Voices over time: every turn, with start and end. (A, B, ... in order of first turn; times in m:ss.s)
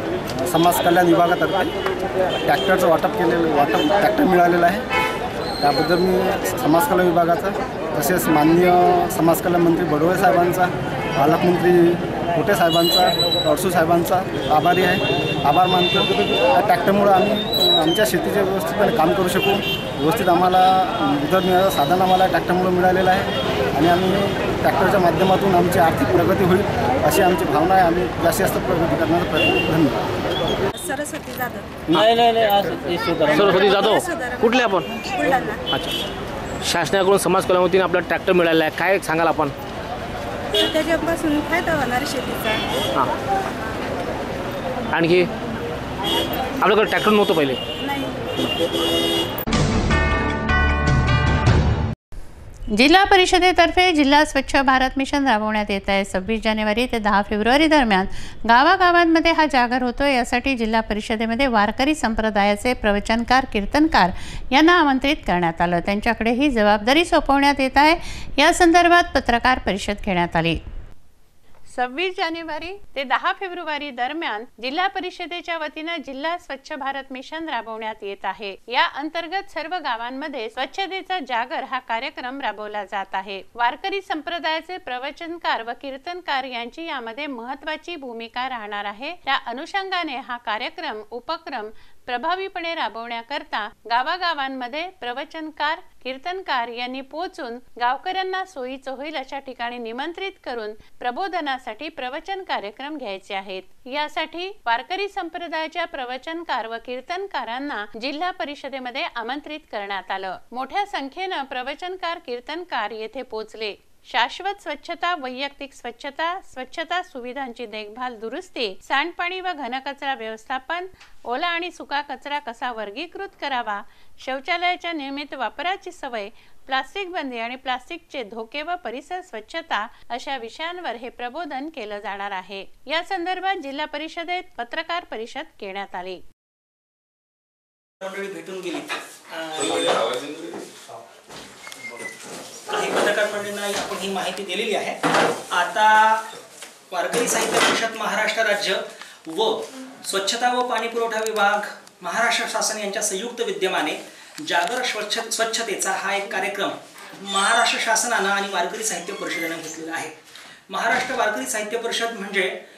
0:00.4-0:01.7 A
0:02.4-0:04.8 A
0:05.6-0:30.0 A
0:30.8-0:31.7 B
0:31.9-0:35.0 C
0:33.6-0:34.4 B
0:35.0-0:35.6 B
0:35.7-0:35.9 C
0:36.6-0:39.5 C
0:40.5-0:42.6 B
0:44.9-0:45.3 C
0:46.6-0:47.6 C
0:47.8-0:48.1 B
0:52.7-1:10.6 D
1:11.7-2:16.2 D
2:18.0-2:20.2 E
2:22.7-2:26.3 E
2:26.9-2:40.1 E
2:40.7-2:42.5 E